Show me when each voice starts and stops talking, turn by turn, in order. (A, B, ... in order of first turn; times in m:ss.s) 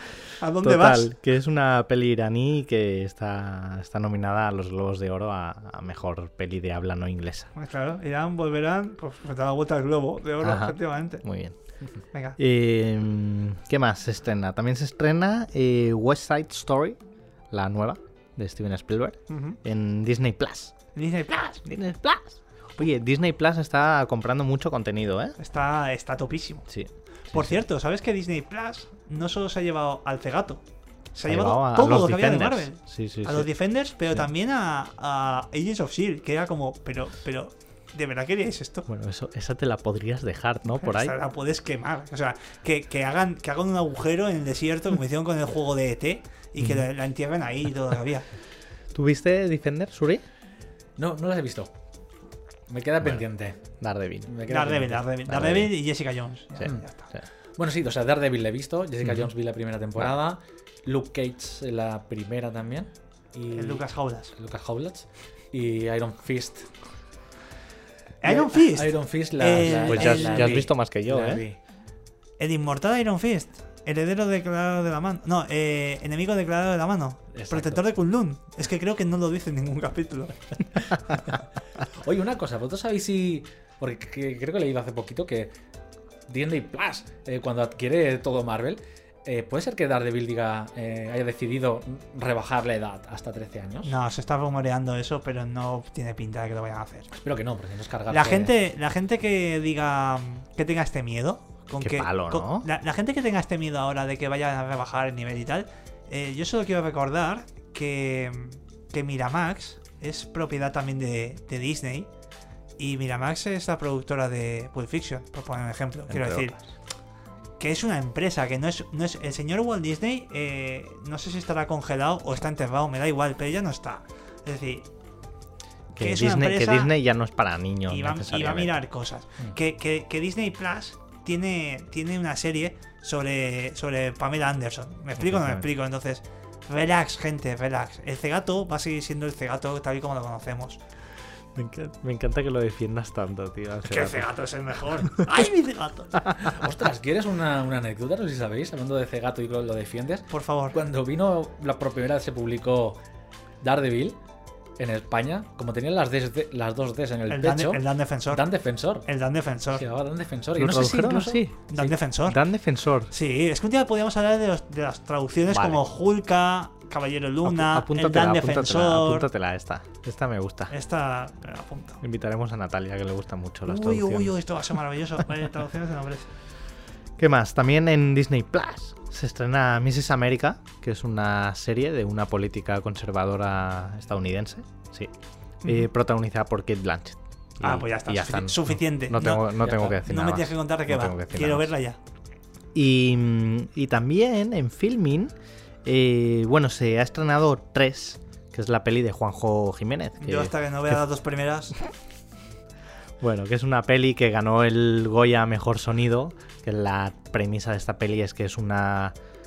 0:00.4-0:01.1 A
0:00.6-0:07.5 B
0:07.5-0:11.2 A
0:10.4-0:17.0 B
0:12.1-0:12.4 A
0:17.5-0:20.7 B
0:19.3-0:19.6 A
0:20.9-0:21.6 A
0:21.6-0:25.4 B
0:25.4-0:26.7 A
0:26.7-0:27.6 B
0:27.3-0:30.6 A
0:31.1-0:38.8 A
0:31.3-0:33.5 B
0:38.9-0:41.1 B
0:40.8-0:48.3 A
0:46.6-0:46.8 B
0:48.9-0:50.2 B
0:51.0-0:51.7 C
0:52.7-0:55.0 C
0:53.0-0:54.3 B
0:54.5-0:57.0 A
0:55.3-0:55.7 B
0:56.6-1:06.8 C
0:56.6-0:57.2 B
0:59.0-0:59.3 B
1:03.5-1:04.3 A
1:08.2-1:10.5 A
1:08.2-1:11.6 C
1:09.6-1:11.4 B
1:12.4-1:20.6 A
1:17.3-1:17.8 C
1:21.9-1:25.5 C
1:26.3-1:33.9 C
1:33.8-1:37.1 A
1:37.1-1:38.5 C
1:38.1-1:52.1 A
1:41.8-1:42.6 B
1:52.8-1:56.6 A
1:56.1-1:56.5 B
1:57.6-2:04.9 A
2:06.0-2:08.7 B
2:06.0-2:06.9 A
2:07.9-2:20.8 A
2:15.2-2:15.6 B
2:21.5-2:24.3 B
2:23.8-2:26.2 A
2:26.4-2:33.0 C
2:30.3-2:30.8 A
2:33.6-2:34.2 C
2:34.8-2:39.1 C
2:37.3-2:38.4 A
2:39.0-2:39.8 A
2:39.7-2:41.4 C
2:40.6-2:43.1 B
2:41.7-2:42.4 A
2:43.1-2:49.3 A
2:45.5-2:45.8 B
2:47.4-2:50.7 B
2:50.7-2:52.0 A
2:52.0-2:54.3 B
2:53.6-2:56.3 A
2:57.2-3:05.1 B
3:05.6-3:11.7 B
3:07.6-3:12.0 A
3:09.6-3:10.0 C
3:12.7-3:15.3 B
3:15.8-3:21.0 B
3:20.2-3:21.8 A
3:23.2-3:29.1 B